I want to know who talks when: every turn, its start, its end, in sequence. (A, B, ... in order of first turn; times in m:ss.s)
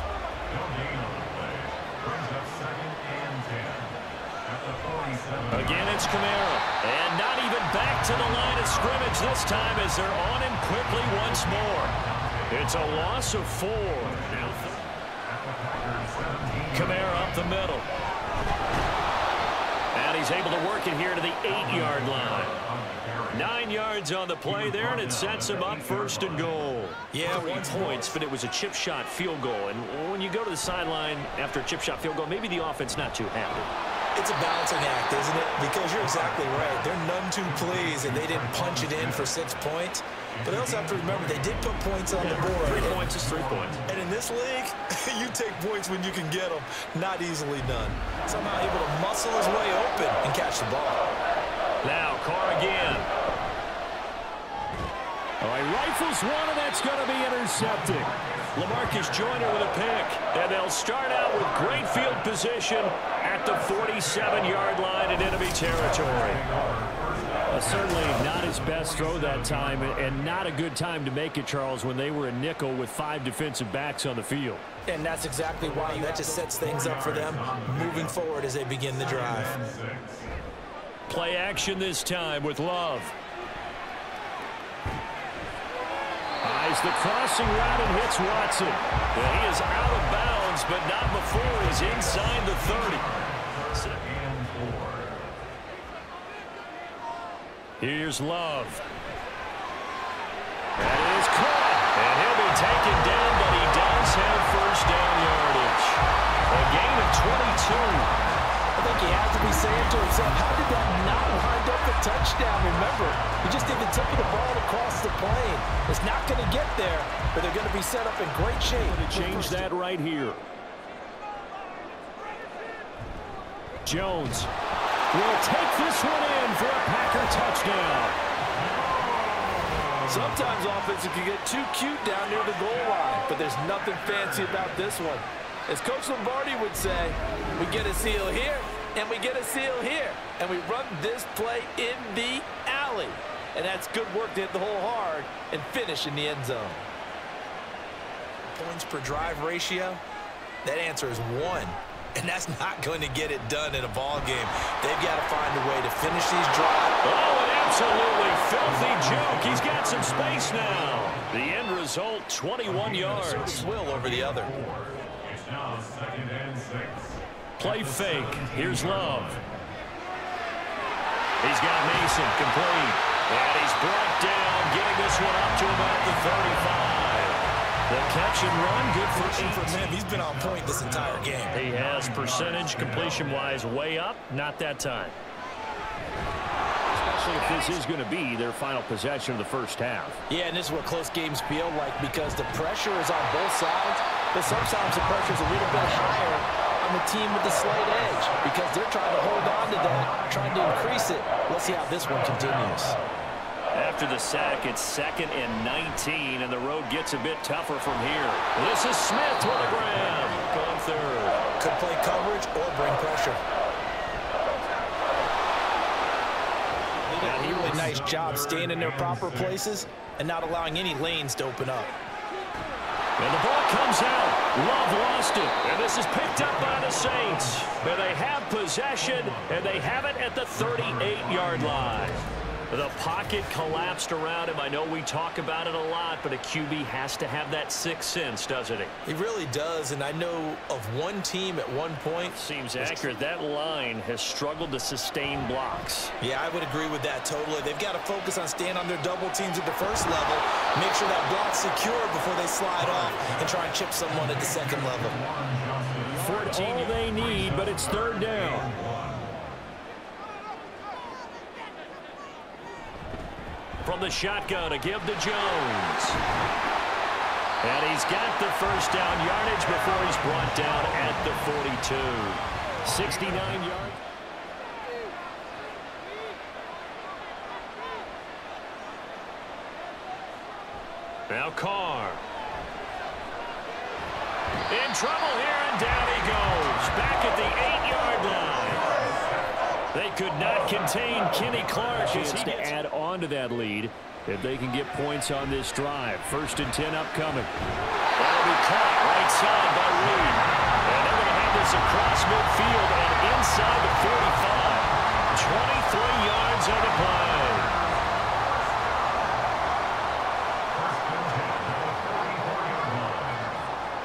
0:00.5-0:06.0 A
0:05.5-0:11.9 B
0:12.0-0:12.5 A
0:12.5-0:14.8 B
0:14.0-0:17.4 A
0:16.7-0:17.9 B
0:19.9-0:22.6 B
0:21.4-0:23.5 A
0:23.3-0:33.7 B
0:24.4-0:26.6 A
0:27.1-0:28.2 C
0:34.2-0:43.0 C
0:36.0-0:36.8 A
0:37.5-0:39.5 A
0:40.4-0:43.9 A
0:42.2-0:43.8 B
0:43.9-0:51.1 C
0:51.8-0:53.1 B
0:55.4-1:06.4 B
0:57.6-0:59.7 A
1:06.1-1:10.2 A
1:07.5-1:14.6 B
1:14.9-1:19.6 C
1:15.6-1:18.2 A
1:18.9-1:20.3 A
1:21.1-1:23.1 B
1:26.4-1:33.0 B
1:32.2-1:35.2 A
1:33.7-1:34.0 B
1:37.8-1:38.8 B
1:40.8-1:48.1 B
1:48.8-1:59.7 C
1:58.8-2:00.4 B
2:03.8-2:04.5 B
2:05.1-2:08.2 B
2:10.0-2:26.9 C
2:28.5-2:30.0 C
2:30.6-2:36.9 C
2:37.0-2:43.6 B
2:38.6-2:41.2 A
2:42.6-2:49.5 A
2:42.9-2:44.5 C
2:47.6-2:49.4 B
2:51.4-2:59.9 B
2:59.1-3:01.6 C
2:59.9-3:03.6 A
3:01.5-3:05.2 B
3:06.9-3:10.2 B
3:10.3-3:23.0 C
3:23.7-3:31.4 B
3:31.6-3:33.4 C
3:37.1-3:41.9 C
3:37.2-3:38.0 B
3:37.5-3:39.6 A
3:43.2-3:58.9 B
3:46.4-3:48.3 A
3:49.0-3:49.9 A
3:50.5-3:52.2 A
3:59.0-4:03.1 C
4:02.2-4:06.1 B
4:06.2-4:15.2 C
4:12.8-4:13.4 A
4:14.2-4:19.4 A
4:16.1-4:18.7 B
4:16.2-4:17.0 C
4:23.8-4:26.2 B
4:27.6-4:34.0 B
4:41.3-4:42.2 B
4:44.7-4:48.9 B
4:49.9-4:57.5 B
4:52.0-4:52.8 C
4:58.2-5:07.7 B
5:10.7-5:13.6 A